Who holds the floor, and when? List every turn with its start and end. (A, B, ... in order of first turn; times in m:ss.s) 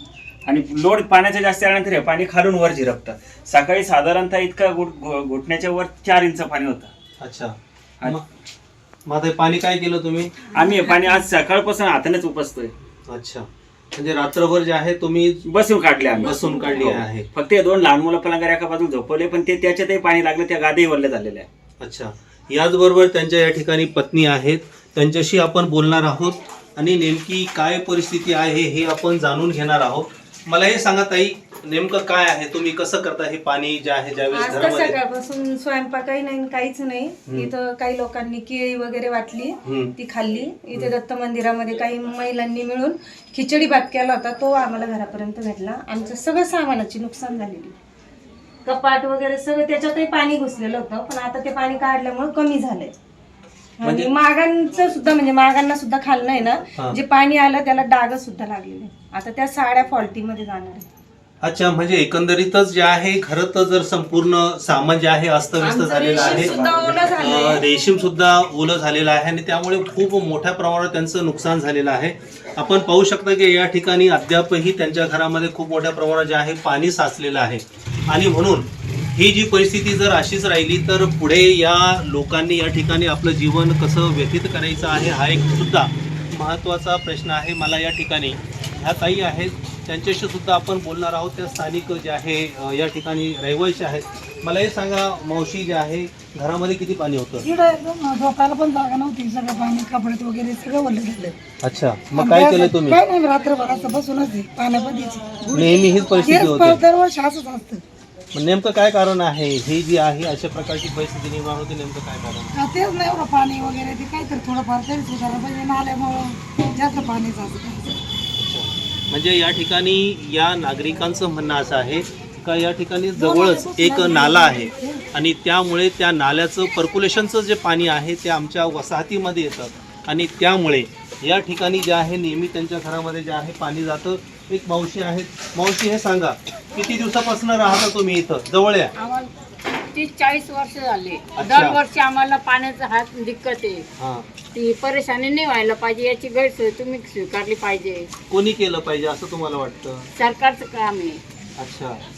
0:00.4-0:06.9 A
0:07.2-0:08.2 B
0:09.1-0:10.4 B
0:10.5-0:12.7 A
0:10.6-0:11.2 C
0:13.1-0:15.4 B
0:15.5-0:21.5 A
0:16.2-0:17.3 B
0:16.2-0:16.8 C
0:21.8-0:35.0 B
0:34.3-0:47.7 C
0:39.6-0:39.9 B
0:48.6-0:52.9 C
0:53.8-1:00.9 C
1:01.4-1:06.6 B
1:05.6-1:07.6 C
1:07.2-1:37.4 B
1:37.4-1:41.4 D
1:41.6-1:43.0 B
1:42.2-1:45.7 D
1:45.5-1:46.8 B
1:46.2-1:47.8 D
1:48.3-1:52.6 B
1:52.7-1:57.9 D
1:58.4-2:18.9 B
2:03.2-2:05.0 D
2:19.9-2:23.8 E
2:21.4-2:21.8 B
2:24.0-2:24.3 B
2:24.5-2:28.1 E
2:28.3-2:30.1 B
2:30.2-2:31.2 E
2:31.6-2:32.0 B